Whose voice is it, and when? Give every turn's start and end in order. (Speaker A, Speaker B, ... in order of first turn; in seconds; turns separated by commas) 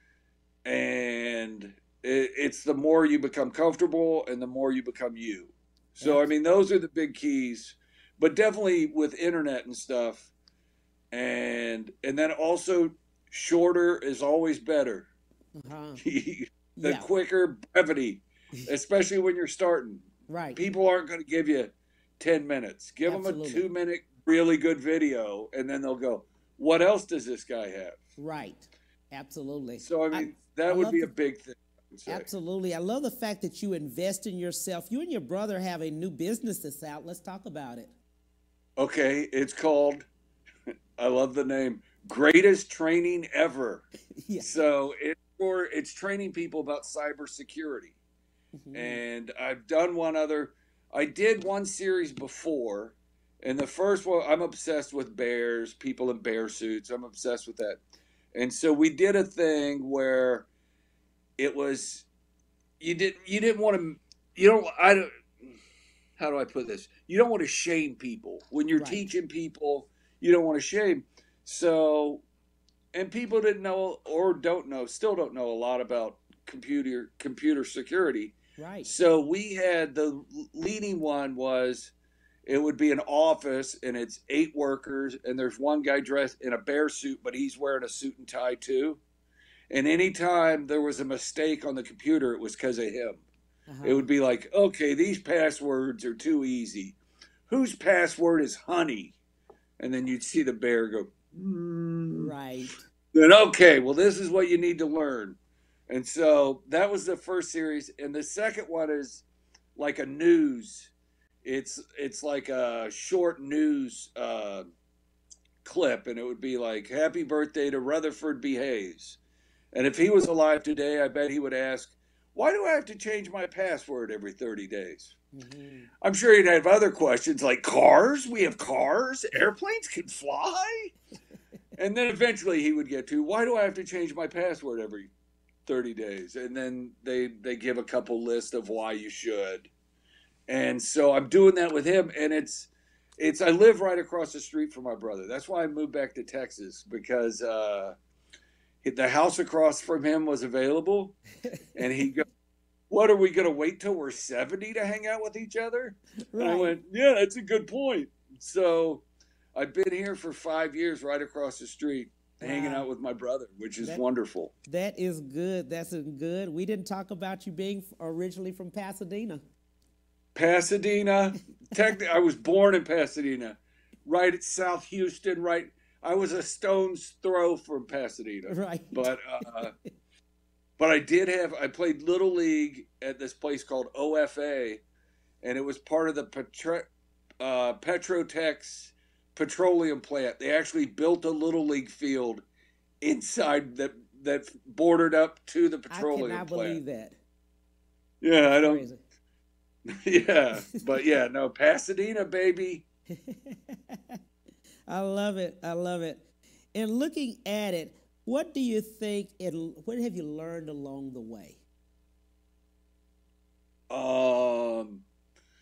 Speaker A: 0.6-10.3, Speaker B: 6.0-6.3, Speaker A: 11.1-15.1, Speaker B: 15.6-16.0, Speaker A: 16.0-28.0, Speaker B: 16.8-17.1, Speaker B: 20.3-20.6, Speaker B: 23.1-23.6, Speaker B: 28.2-31.1, Speaker A: 29.8-32.3, Speaker B: 32.1-37.9, Speaker A: 38.8-40.0, Speaker A: 41.0-43.9, Speaker B: 44.2-44.5, Speaker A: 44.4-48.0, Speaker B: 48.6-49.0, Speaker A: 48.7-57.8, Speaker A: 58.3-60.5, Speaker A: 61.4-62.0, Speaker A: 62.8-65.5, Speaker A: 66.2-72.2, Speaker B: 68.7-69.0, Speaker A: 72.9-81.9, Speaker B: 78.6-78.9, Speaker A: 82.5-89.0, Speaker A: 89.7-93.2, Speaker B: 93.7-94.1, Speaker A: 93.8-97.0, Speaker A: 97.5-99.1, Speaker A: 99.8-102.3, Speaker B: 102.2-102.8, Speaker A: 103.1-105.4, Speaker A: 105.9-109.2, Speaker A: 109.8-110.9, Speaker A: 111.4-114.7, Speaker A: 115.6-119.2, Speaker A: 119.7-125.1, Speaker B: 125.3-125.9, Speaker A: 126.0-130.9, Speaker A: 131.8-135.1, Speaker A: 135.7-139.7, Speaker A: 140.5-147.9, Speaker A: 148.8-151.2, Speaker A: 151.7-152.2, Speaker A: 152.9-164.5, Speaker B: 156.3-156.8, Speaker B: 162.4-162.9, Speaker B: 164.7-169.4, Speaker A: 170.3-179.7, Speaker B: 178.5-179.5, Speaker A: 180.8-184.8, Speaker A: 185.4-186.9, Speaker A: 187.4-192.4, Speaker A: 193.0-196.8, Speaker B: 195.9-197.2, Speaker A: 198.2-198.8, Speaker B: 198.4-199.0, Speaker A: 199.9-202.8, Speaker B: 203.1-204.2, Speaker B: 204.9-211.6, Speaker A: 213.9-215.0